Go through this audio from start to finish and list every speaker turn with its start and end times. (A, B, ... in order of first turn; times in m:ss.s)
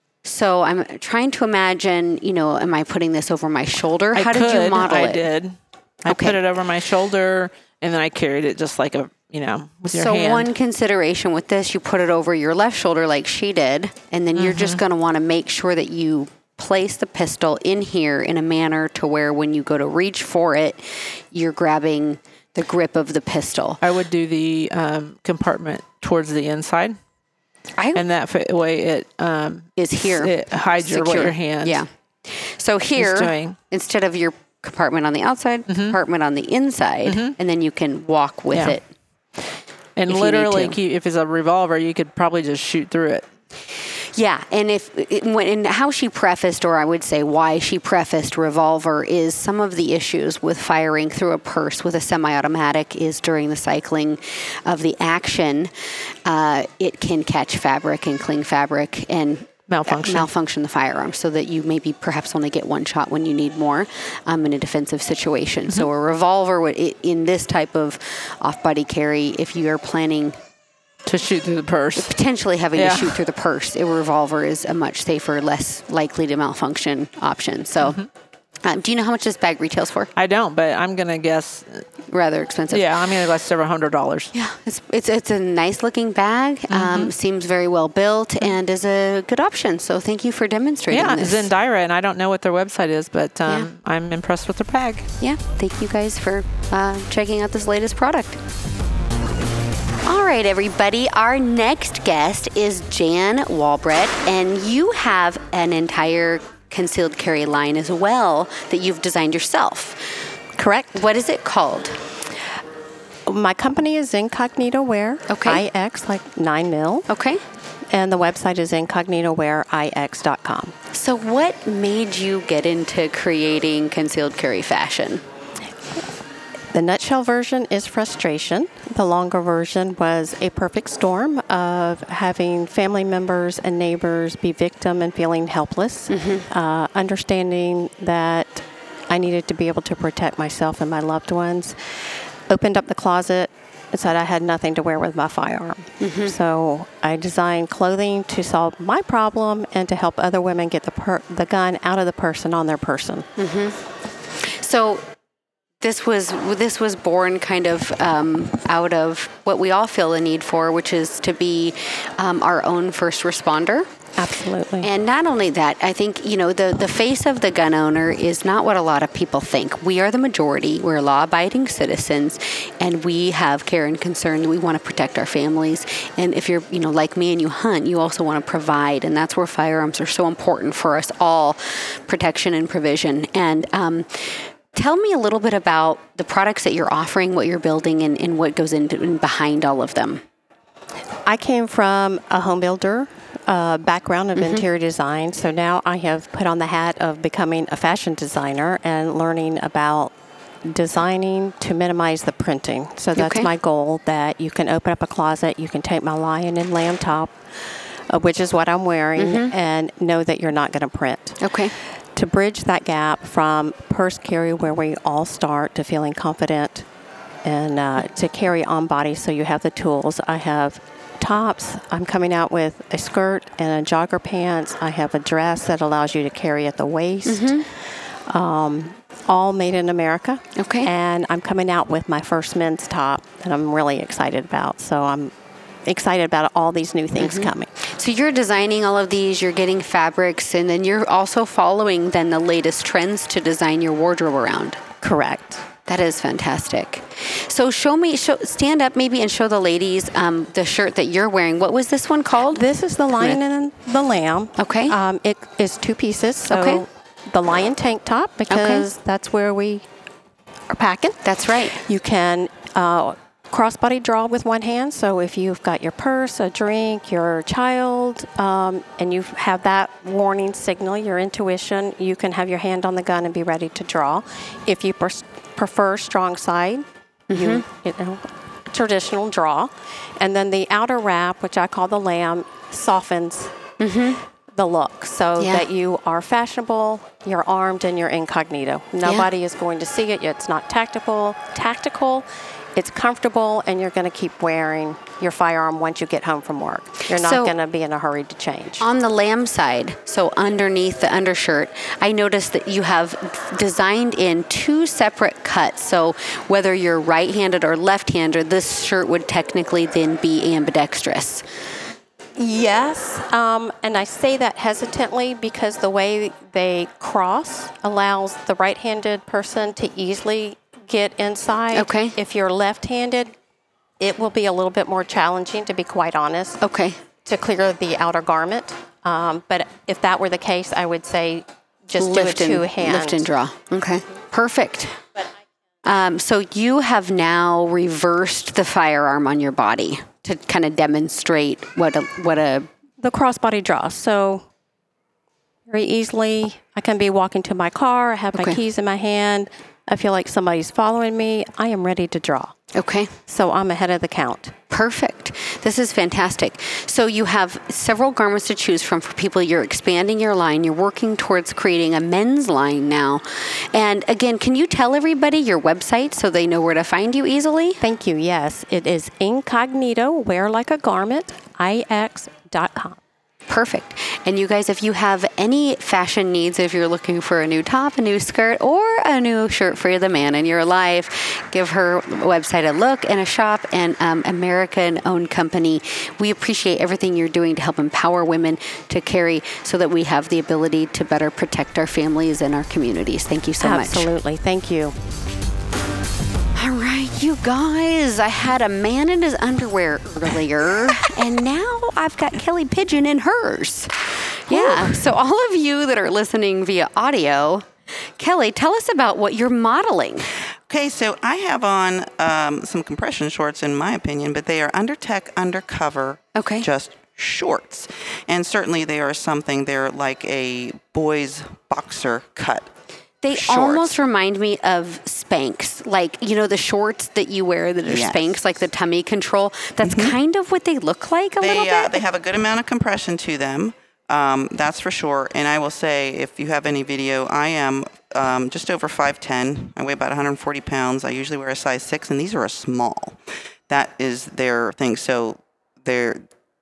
0:00.2-0:05.2 A
0:04.1-0:10.5 B
0:06.1-0:06.4 A
0:09.9-0:23.8 A
0:14.3-0:14.8 B
0:23.8-0:27.0 B
0:27.8-0:28.0 A
0:27.9-0:31.8 B
0:29.8-0:38.8 A
0:32.9-0:33.6 B
0:35.7-0:36.0 B
0:37.0-0:37.4 B
0:38.5-0:38.8 B
0:40.0-0:43.2 B
0:40.1-0:40.8 A
0:44.1-0:55.7 A
0:56.2-1:10.4 A
0:59.7-1:00.3 B
1:11.0-1:12.2 B
1:12.0-1:18.0 A
1:12.7-1:13.2 B
1:17.8-1:18.1 B
1:18.6-1:20.1 A
1:20.2-1:21.9 B
1:22.1-1:22.9 A
1:22.7-1:24.3 B
1:24.3-1:31.5 A
1:26.7-1:27.1 B
1:30.9-1:35.1 B
1:35.2-1:38.4 A
1:40.0-1:50.1 A
1:50.5-1:51.0 C
1:50.9-1:52.0 A
1:53.2-1:57.1 C
1:55.3-1:55.6 A
1:57.1-1:57.4 A
1:57.9-2:00.7 C
2:00.9-2:05.2 A
2:06.7-2:33.3 C
2:16.1-2:16.4 A
2:26.0-2:26.3 A
2:33.4-2:33.8 A
2:34.4-2:35.0 A
2:35.8-2:43.9 A
2:44.2-2:44.9 C
2:44.8-3:10.2 A
3:11.2-3:20.1 C
3:14.4-3:14.6 A
3:20.6-3:36.8 C
3:23.1-3:23.5 A
3:29.2-3:29.5 A
3:31.4-3:31.7 A
3:37.4-3:47.7 C
3:47.2-3:47.6 A
3:48.2-3:57.7 C
3:50.6-3:50.9 A
3:57.2-4:04.8 A
4:05.0-4:05.6 C
4:05.9-4:13.4 A
4:12.5-4:19.8 C
4:14.6-4:14.9 A
4:16.5-4:16.8 A
4:18.5-4:18.8 A
4:20.7-4:43.6 C
4:21.2-4:21.8 A
4:37.3-4:37.6 A
4:43.8-4:44.2 A
4:44.5-4:58.9 C
4:45.4-4:45.6 A
4:49.0-4:49.3 A
4:57.1-4:57.5 A
4:58.8-5:11.4 A
5:12.4-5:23.3 C
5:21.7-5:22.2 A
5:24.0-5:26.6 C
5:26.6-5:27.0 A
5:27.2-5:33.3 C
5:32.0-5:35.0 A
5:35.8-5:42.7 A
5:43.0-5:44.4 C
5:45.7-5:52.6 C
5:48.3-5:48.6 A
5:52.7-5:53.1 A
5:53.3-5:54.5 C
5:54.7-6:07.8 A
6:07.8-6:13.0 C
6:13.5-6:34.1 A
6:33.6-6:35.0 C
6:36.6-6:50.3 A
6:50.7-7:02.7 D
6:56.3-6:56.6 A
7:03.2-7:12.0 A
7:03.3-7:04.0 D
7:07.9-7:08.3 D
7:09.8-7:10.2 D
7:11.4-7:26.2 D